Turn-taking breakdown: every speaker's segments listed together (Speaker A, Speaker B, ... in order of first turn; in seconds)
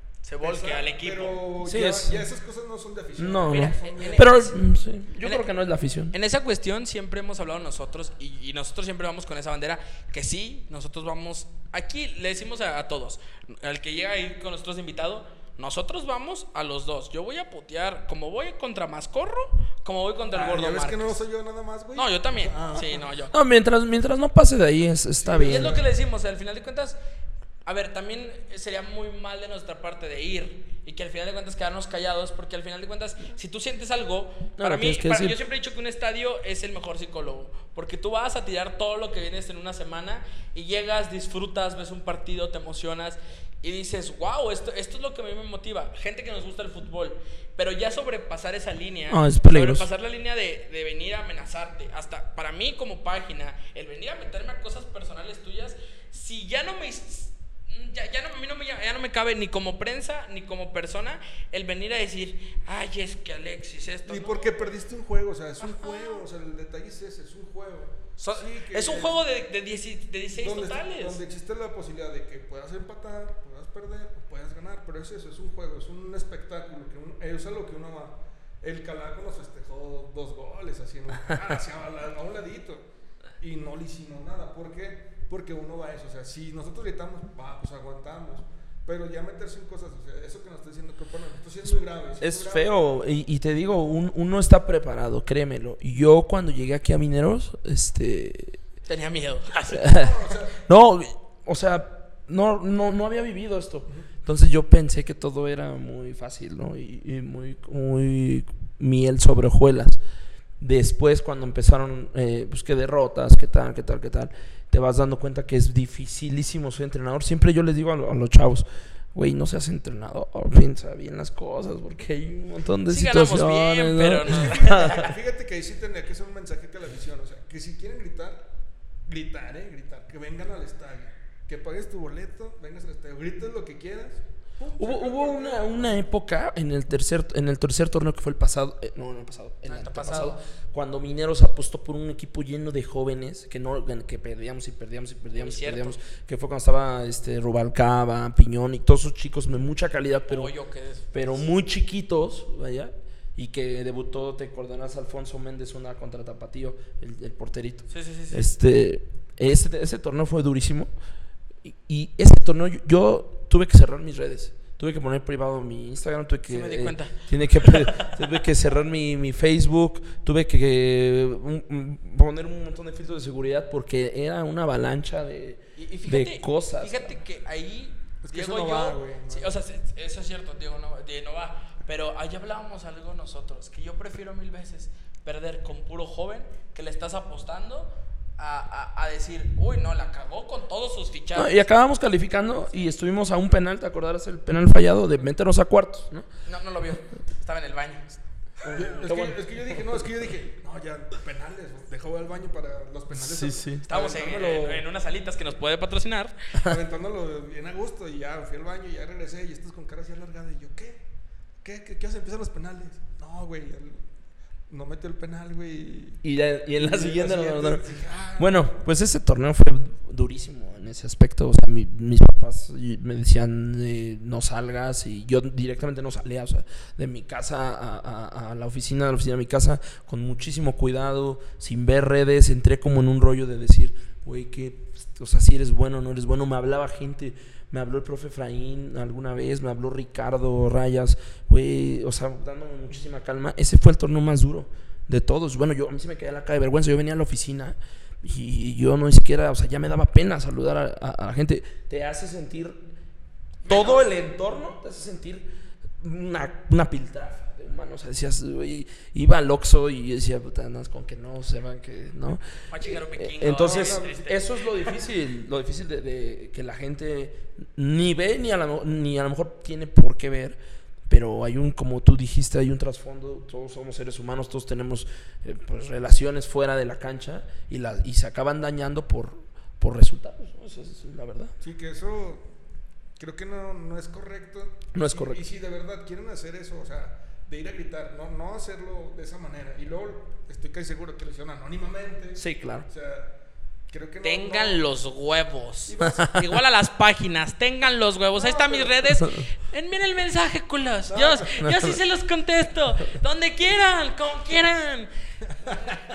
Speaker A: 0.2-1.4, 3.5-4.5, 5.2-5.5, 6.1-21.2, 21.9-23.3, 25.4-27.0, 27.6-64.5, 65.6-66.2, 68.2-71.2, 98.9-99.8, 122.9-125.1, 139.7-140.4, 145.3-146.0, 150.3-151.4, 157.9-158.5, 166.5-168.1, 175.8-191.7, 196.4-198.2, 203.8-206.3, 253.7-254.0, 262.7-264.4, 294.2-305.1
Speaker B: 0.4-4.4, 20.3-23.0, 25.2-25.8, 64.1-69.2, 70.4-82.9, 83.4-92.7, 99.7-100.6, 124.2-128.4, 129.1-135.9, 178.2-179.6, 198.7-204.8, 206.6-211.0, 211.6-214.0, 214.7-216.2, 216.8-218.8, 263.6-264.1, 281.6-282.5, 283.2-293.3, 293.9-294.9, 295.9-296.3, 298.3-299.0, 301.1-301.5
Speaker C: 1.6-2.2, 3.2-6.1, 23.3-25.8, 34.6-35.4, 49.1-49.9, 92.2-98.6, 99.7-110.0, 110.6-125.1, 134.8-150.5, 151.1-160.9, 161.6-177.2, 191.3-196.2, 198.6-200.0, 203.1-204.2, 216.2-217.8, 218.4-252.8, 253.6-255.5, 256.0-270.6, 271.1-281.5, 284.9-285.4, 292.4-292.9, 296.1-296.3, 301.6-302.0